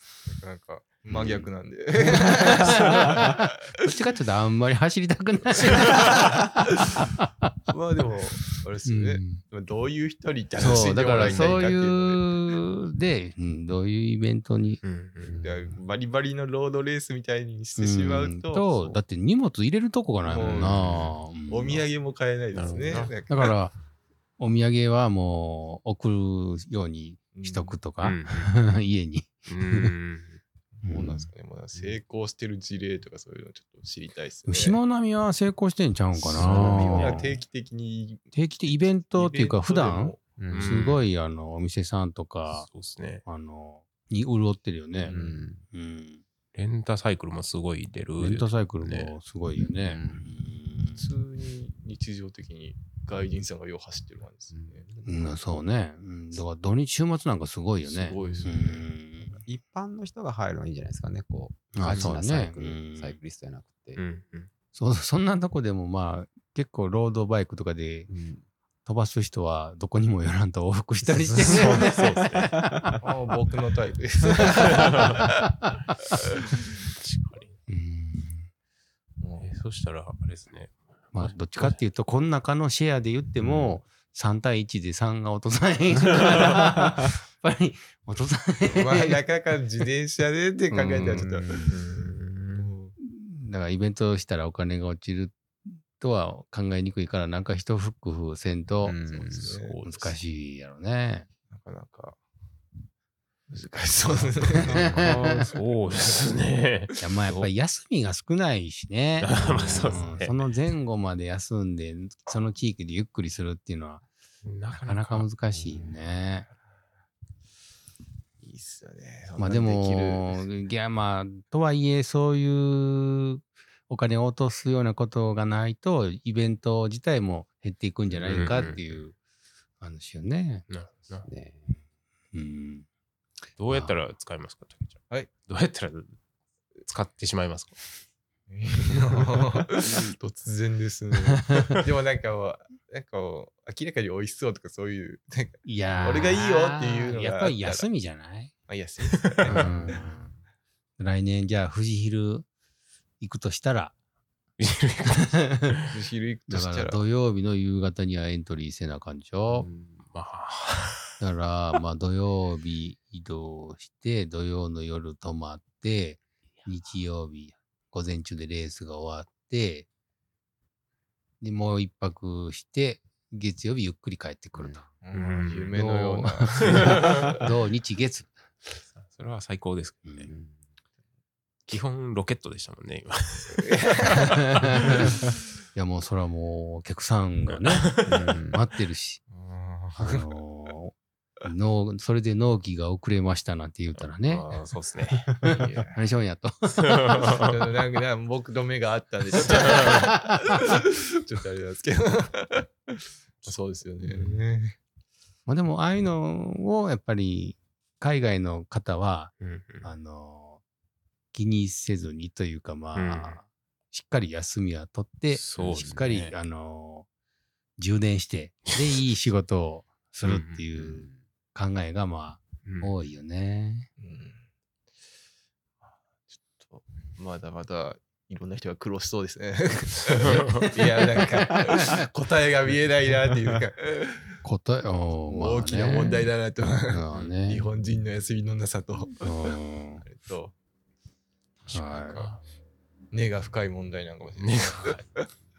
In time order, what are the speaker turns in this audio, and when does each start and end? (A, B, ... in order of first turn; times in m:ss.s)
0:00.3-0:03.5 A
0:01.1-0:01.5 B
0:02.0-0:07.5 C
0:07.7-0:12.3 A
0:08.9-0:09.4 C
0:10.6-0:14.8 C
0:14.8-0:15.4 D
0:15.2-0:15.7 B
0:15.3-0:19.0 A
0:17.8-0:21.8 C
0:20.2-0:23.5 A
0:20.4-0:21.0 D
0:22.5-0:23.1 D
0:22.6-0:23.1 B
0:23.3-0:23.8 C
0:24.4-0:29.9 C
0:27.3-0:27.8 A
0:28.0-0:28.5 D
0:29.5-0:30.4 D
0:30.8-0:34.8 A
0:30.8-0:31.3 C
0:34.5-0:37.4 C
0:36.3-0:37.1 D
0:36.3-0:37.2 B
0:36.4-0:40.2 A
0:38.3-0:42.7 C
0:40.4-0:40.7 B
0:40.5-0:41.0 D
0:42.5-0:43.2 D
0:43.2-0:45.1 C
0:45.0-0:45.3 D
0:45.1-0:45.6 B
0:45.7-0:46.2 C
0:46.6-0:49.1 D
0:48.2-0:51.0 C
0:49.8-0:50.3 B
0:51.0-0:54.8 A
0:54.5-0:55.4 B
0:55.0-0:59.4 C
0:57.8-0:58.8 A
0:58.1-0:58.7 B
0:59.4-1:04.0 B
1:01.7-1:03.2 C
1:04.0-1:04.5 D
1:04.7-1:08.1 C
1:08.1-1:08.4 B
1:08.8-1:13.0 C
1:11.4-1:12.6 D
1:13.0-1:15.3 A
1:14.8-1:15.2 D
1:14.9-1:16.1 C
1:17.0-1:17.6 D
1:17.7-1:18.5 C
1:19.2-1:19.5 A
1:19.4-1:21.4 D
1:21.1-1:29.2 C
1:23.4-1:23.7 B
1:28.7-1:32.9 A
1:30.7-1:31.8 C
1:30.9-1:31.5 B
1:31.7-1:32.7 D
1:33.0-1:39.0 C
1:38.8-1:39.5 B
1:39.1-1:40.1 A
1:39.3-1:40.0 D
1:39.8-1:41.3 C
1:41.5-1:42.2 A
1:43.5-1:45.4 A
1:44.6-1:45.4 C
1:44.7-1:47.5 D
1:47.0-1:54.0 C
1:49.2-1:50.3 D
1:49.4-1:50.0 B
1:54.4-1:55.3 D
1:54.7-1:56.5 C
1:55.6-1:55.9 B
1:58.4-2:00.5 A
1:59.4-2:09.2 C
2:08.3-2:08.8 D
2:09.8-2:10.7 C
2:10.7-2:11.3 D
2:11.2-2:11.8 B
2:12.3-2:12.9 C
2:13.6-2:16.1 D
2:16.8-2:17.8 D
2:18.5-2:27.9 A
2:25.6-2:28.5 C
2:28.7-2:30.0 A
2:29.5-2:30.4 B
2:29.5-2:30.2 C
2:31.0-2:32.5 C
2:33.2-2:33.9 C
2:34.6-2:35.8 D
2:35.1-2:35.8 C
2:35.9-2:37.0 A
2:36.5-2:39.7 C
2:39.5-2:40.0 B
2:40.1-2:41.2 D
2:41.2-2:49.9 C
2:51.4-2:54.9 C
2:54.6-2:54.8 B
2:55.0-2:57.4 A
2:55.1-2:55.7 D
2:55.7-2:58.3 C
2:56.7-2:57.3 D
2:58.9-3:00.0 D
3:00.2-3:00.6 B
3:01.7-3:03.7 D
3:03.6-3:04.3 A
3:04.1-3:05.2 C
3:05.7-3:08.0 C
3:07.5-3:08.4 D
3:08.0-3:08.6 B
3:08.5-3:09.2 C
3:09.3-3:10.3 A
3:10.0-3:14.4 C
3:14.3-3:15.5 D
3:15.4-3:17.2 C
3:15.4-3:16.0 A
3:16.8-3:17.6 D
3:17.3-3:24.8 A
3:19.6-3:20.0 D
3:25.5-3:30.6 C
3:29.4-3:29.9 D
3:31.3-3:37.0 C
3:33.0-3:33.4 D
3:35.3-3:36.3 D
3:35.6-3:36.0 B
3:37.8-3:43.9 C
3:40.2-3:40.6 D
3:40.8-3:41.2 B
3:42.6-3:42.9 D
3:44.0-3:44.4 A
3:46.3-3:54.4 A
3:50.1-3:50.7 D
3:51.5-3:51.9 C
3:54.4-3:56.3 C
3:55.3-4:00.5 A
3:56.9-3:57.7 C
3:59.2-4:00.0 C
4:01.6-4:02.4 A
4:01.7-4:02.3 C
4:03.1-4:05.3 A
4:04.4-4:05.0 D